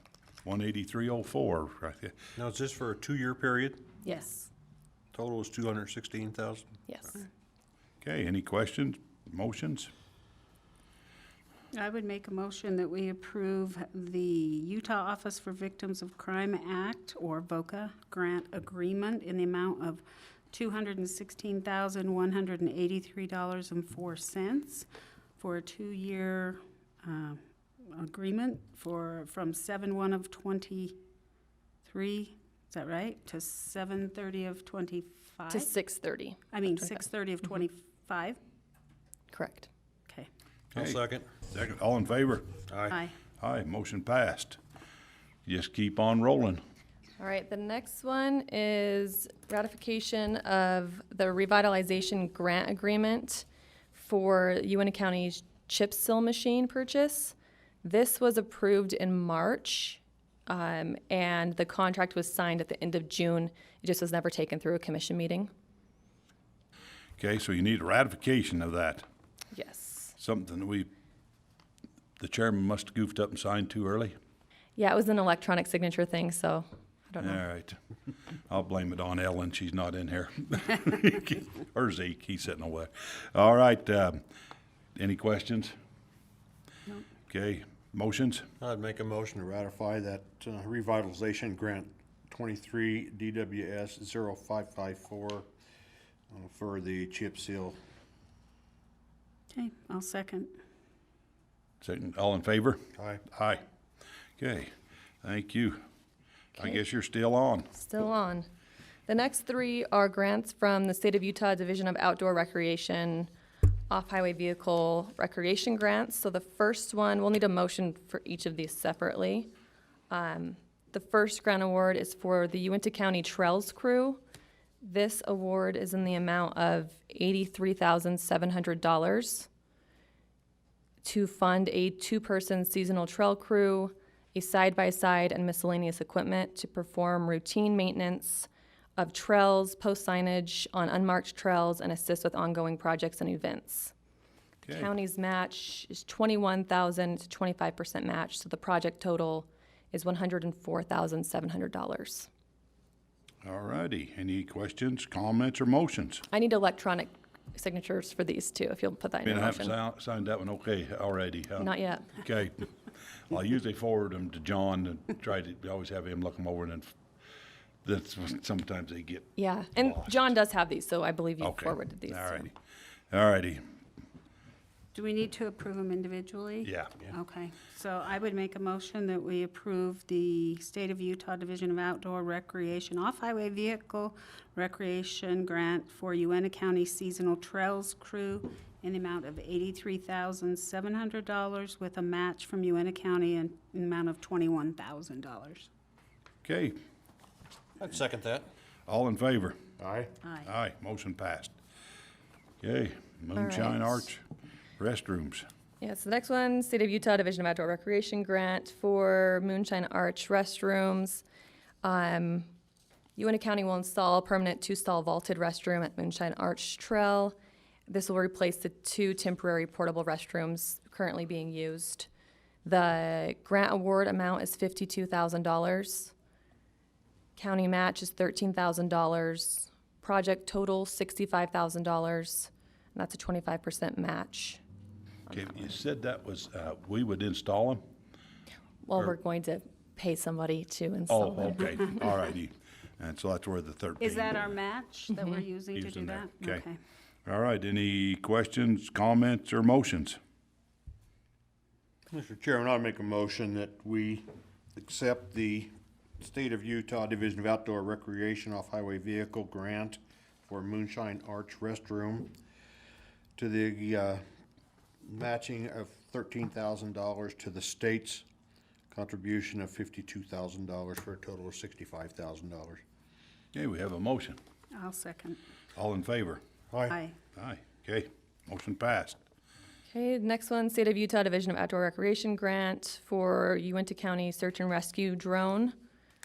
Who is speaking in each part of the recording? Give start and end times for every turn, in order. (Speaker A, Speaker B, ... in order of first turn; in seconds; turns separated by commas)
Speaker A: 0.5-2.1, Speaker B: 2.4-3.8, Speaker C: 4.0-4.5, Speaker B: 5.1-6.6, Speaker C: 6.9-7.2, Speaker A: 8.0-9.9, Speaker D: 11.7-31.0, Speaker D: 31.8-35.7, Speaker C: 35.5-37.0, Speaker D: 36.5-38.4, Speaker C: 39.3-39.7, Speaker A: 40.7-42.6, Speaker B: 40.8-41.2, Speaker B: 42.7-43.0, Speaker D: 42.9-43.1, Speaker A: 43.4-44.6, Speaker A: 45.5-46.6, Speaker C: 47.2-65.5, Speaker A: 67.2-69.0, Speaker C: 69.5-70.1, Speaker A: 70.2-70.9, Speaker A: 72.2-74.1, Speaker C: 74.8-77.4, Speaker A: 77.2-77.8, Speaker A: 78.5-84.2, Speaker A: 84.9-85.8, Speaker A: 87.3-88.5, Speaker B: 88.6-95.5, Speaker B: 96.3-97.8, Speaker D: 99.5-100.5, Speaker A: 101.8-103.6, Speaker B: 103.0-103.2, Speaker A: 104.4-104.7, Speaker A: 105.2-105.8, Speaker A: 106.6-107.7, Speaker C: 107.7-108.5, Speaker C: 109.1-113.3, Speaker C: 113.9-119.5, Speaker C: 120.1-124.2, Speaker C: 124.8-129.5, Speaker C: 131.0-143.9, Speaker C: 144.7-152.3, Speaker A: 153.4-156.2, Speaker C: 156.3-159.8, Speaker A: 159.2-166.9, Speaker C: 161.6-162.2, Speaker A: 167.8-170.3, Speaker C: 169.4-172.5, Speaker A: 171.4-172.5, Speaker A: 173.1-173.6, Speaker D: 174.9-195.7, Speaker A: 176.6-176.9, Speaker A: 196.4-196.8, Speaker B: 197.8-198.4, Speaker A: 198.9-199.6, Speaker B: 199.8-200.1, Speaker D: 200.2-200.5, Speaker A: 200.4-201.5, Speaker A: 202.6-204.2, Speaker C: 203.4-204.1, Speaker A: 204.8-205.4, Speaker C: 205.8-211.2, Speaker C: 211.8-212.5, Speaker C: 213.2-222.1, Speaker C: 222.7-226.1, Speaker C: 227.4-234.6, Speaker A: 235.3-237.8, Speaker C: 238.8-241.9, Speaker A: 241.1-244.5, Speaker D: 244.0-246.8, Speaker C: 245.1-245.4, Speaker A: 245.7-246.7, Speaker A: 247.3-250.2, Speaker B: 252.1-262.3, Speaker B: 263.4-264.2, Speaker B: 265.0-268.2, Speaker B: 268.9-272.8, Speaker A: 273.5-274.4, Speaker D: 274.7-275.4, Speaker A: 275.8-276.4, Speaker B: 276.7-276.9, Speaker D: 276.9-277.1, Speaker A: 277.3-279.2, Speaker C: 279.9-285.8